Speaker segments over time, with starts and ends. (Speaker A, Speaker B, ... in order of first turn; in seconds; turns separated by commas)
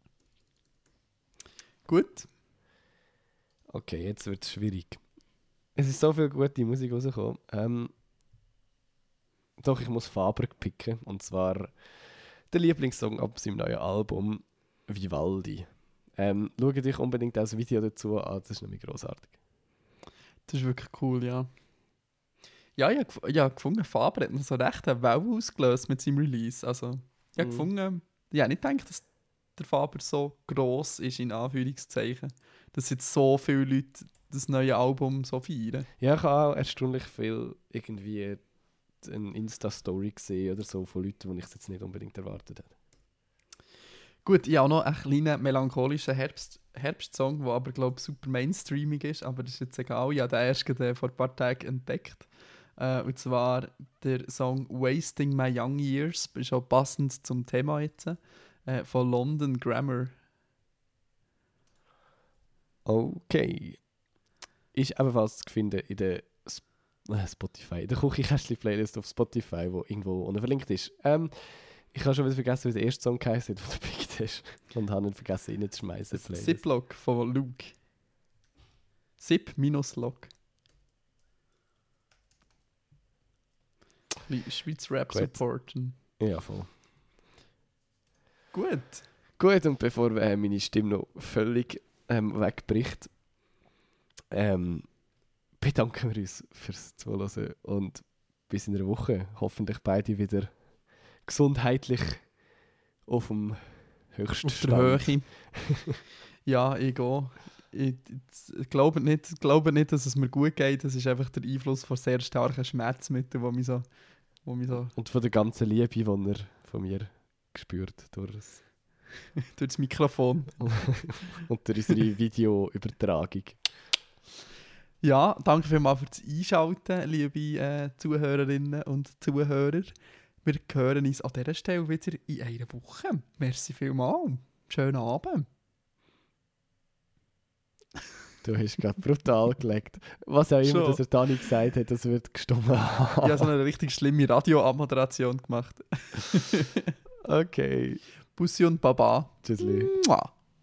Speaker A: 1.9-2.3, Speaker B: 3.7-5.0, Speaker B: 5.7-7.9, Speaker B: 9.6-11.9, Speaker B: 12.5-19.3, Speaker A: 20.5-21.5, Speaker A: 22.8-35.9, Speaker B: 27.4-27.7, Speaker B: 36.0-38.4, Speaker B: 39.0-42.7, Speaker A: 44.2-60.2, Speaker B: 62.9-63.8, Speaker B: 64.7-76.6, Speaker A: 76.1-77.7, Speaker A: 79.2-80.3, Speaker A: 84.3-86.0, Speaker B: 85.1-86.7, Speaker A: 88.5-89.0, Speaker B: 89.4-93.1, Speaker B: 94.3-95.0, Speaker B: 95.6-102.4, Speaker B: 103.0-106.0, Speaker A: 104.4-105.7, Speaker A: 106.5-115.0, Speaker B: 114.9-118.6, Speaker A: 119.6-121.2, Speaker B: 120.6-123.7, Speaker A: 125.0-135.5, Speaker B: 138.4-143.5, Speaker A: 140.6-141.0, Speaker A: 143.2-146.8, Speaker B: 147.2-148.0, Speaker A: 148.3-150.3, Speaker B: 149.4-149.9